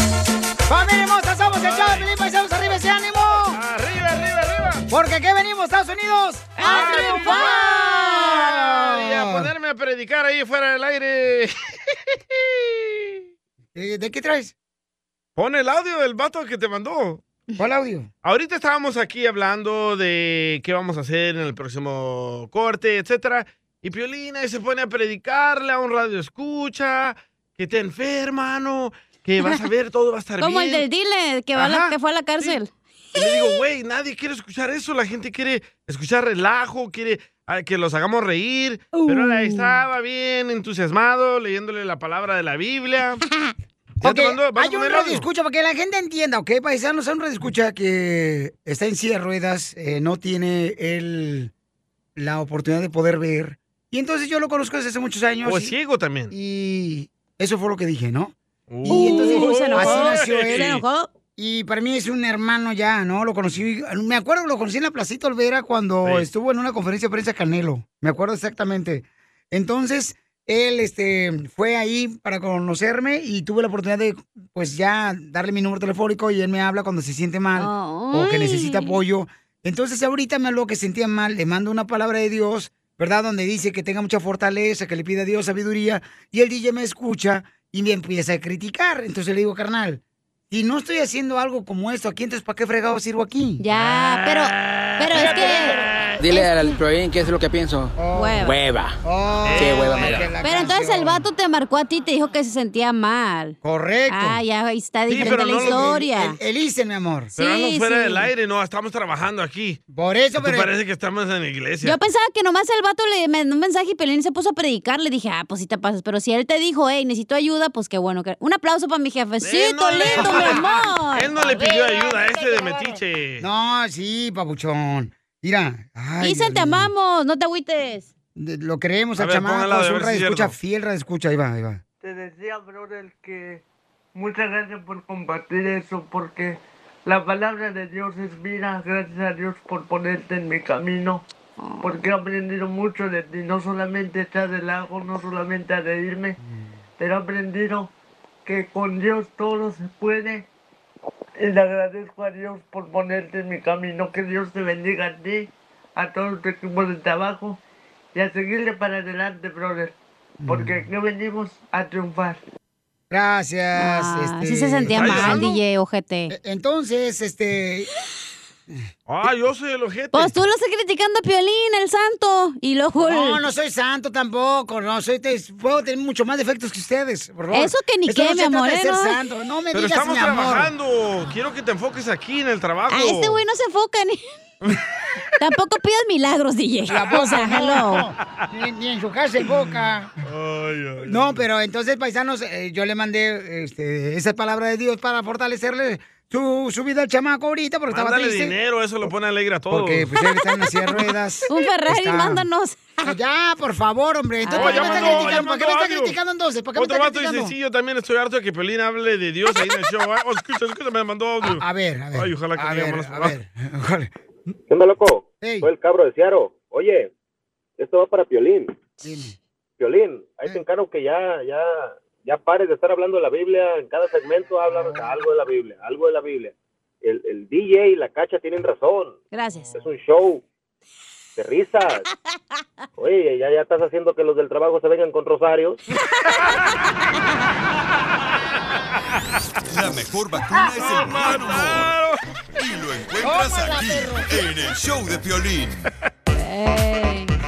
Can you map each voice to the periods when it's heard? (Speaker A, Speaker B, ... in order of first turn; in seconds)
Speaker A: 0.7-3.6, 4.9-9.5, 13.7-14.5, 17.6-18.1, 44.0-51.5, 52.1-55.7, 56.3-58.3, 58.8-60.8, 61.4-93.6, 95.1-95.8, 98.0-98.5, 99.0-101.2, 103.6-104.4, 105.1-107.3, 109.9-110.7, 120.1-126.9, 128.3-131.8, 160.4-160.9, 163.1-165.6, 166.3-167.9, 173.0-180.7, 186.9-190.1, 191.0-199.1, 199.7-202.4, 203.0-207.5, 211.4-214.1, 215.4-215.7, 219.0-219.3, 224.7-225.2, 243.2-244.3
Speaker B: 1.5-2.1, 3.5-4.8, 6.6-7.5, 8.4-11.7, 12.4-13.2, 15.3-17.2, 18.2-30.8, 31.5-32.6, 33.1-43.2, 44.0-45.2, 55.4-56.3, 58.7-60.8, 99.4-100.2, 105.1-106.0, 107.3-109.8, 110.4-112.0, 119.4-123.5, 129.2-130.5, 164.9-165.6, 169.1-170.3, 179.7-183.4, 190.2-191.4, 197.9-200.1, 204.5-206.2, 206.8-213.4, 240.6-242.2
Speaker C: 6.5-8.6, 30.4-33.6, 39.0-39.7, 58.8-61.1, 77.6-79.0, 93.6-96.8, 98.1-98.5, 100.4-103.5, 104.1-106.4, 107.4-108.3, 111.8-121.4, 126.2-128.1, 141.6-142.0, 163.7-166.3, 170.1-173.4, 177.5-179.2, 182.9-184.2, 185.4-188.1, 200.1-203.1, 204.4-205.5, 229.3-229.7, 246.3-247.3
Speaker D: 96.2-99.0, 99.5-100.4
Speaker E: 132.0-133.6, 134.1-141.2, 141.8-146.3, 147.0-147.9, 148.4-150.4, 151.4-157.6, 158.1-159.9, 160.5-162.4
Speaker F: 214.7-217.1, 217.8-218.8, 219.8-229.2, 229.7-230.4, 231.3-232.0, 233.0-235.8
Speaker G: 239.7-241.9, 242.6-245.8